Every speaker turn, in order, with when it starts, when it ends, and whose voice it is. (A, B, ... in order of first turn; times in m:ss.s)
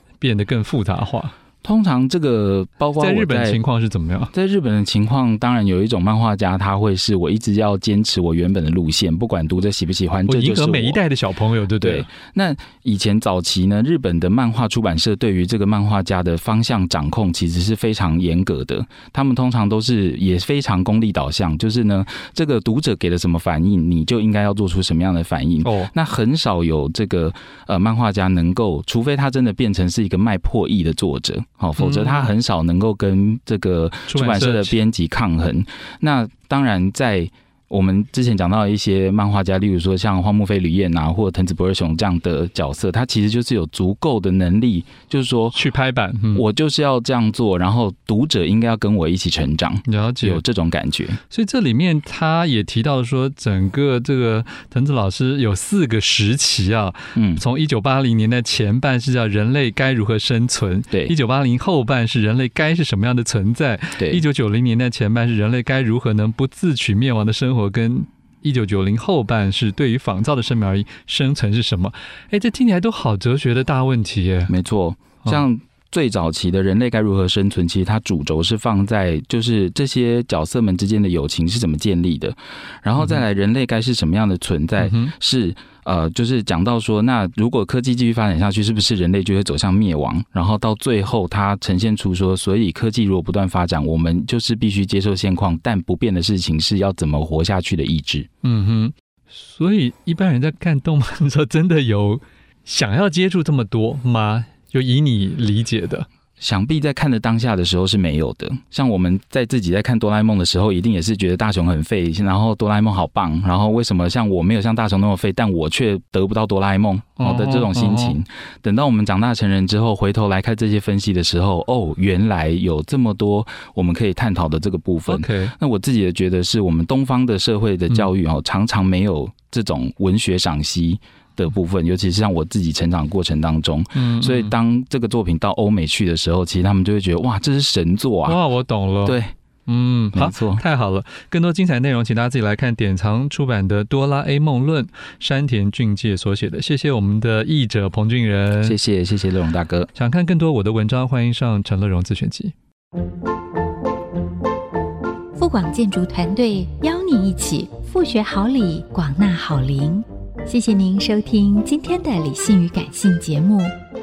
0:00.2-0:01.3 A
0:01.6-0:03.6 B
0:03.0-0:04.3 A
0:04.3-0:11.0 B
0:10.3-0:12.1 A
0:11.8-0:45.6 B
0:25.6-0:25.9 A
0:31.8-0:32.3 A
0:34.1-0:34.8 A
0:45.6-0:46.4 A
0:46.3-0:51.2 B
0:49.9-0:50.4 A
0:51.3-1:14.5 A
0:57.2-0:57.4 B
1:04.0-1:04.2 B
1:14.5-1:38.3 B
1:24.8-1:25.1 A
1:38.4-1:46.1 A
1:46.4-2:18.4 B
1:57.2-1:58.2 A
2:05.1-2:05.5 A
2:14.0-2:14.5 A
2:18.3-2:28.8 A
2:19.0-2:19.3 B
2:20.1-2:20.6 B
2:28.6-2:29.9 B
2:29.9-2:32.5 A
2:35.4-2:43.8 C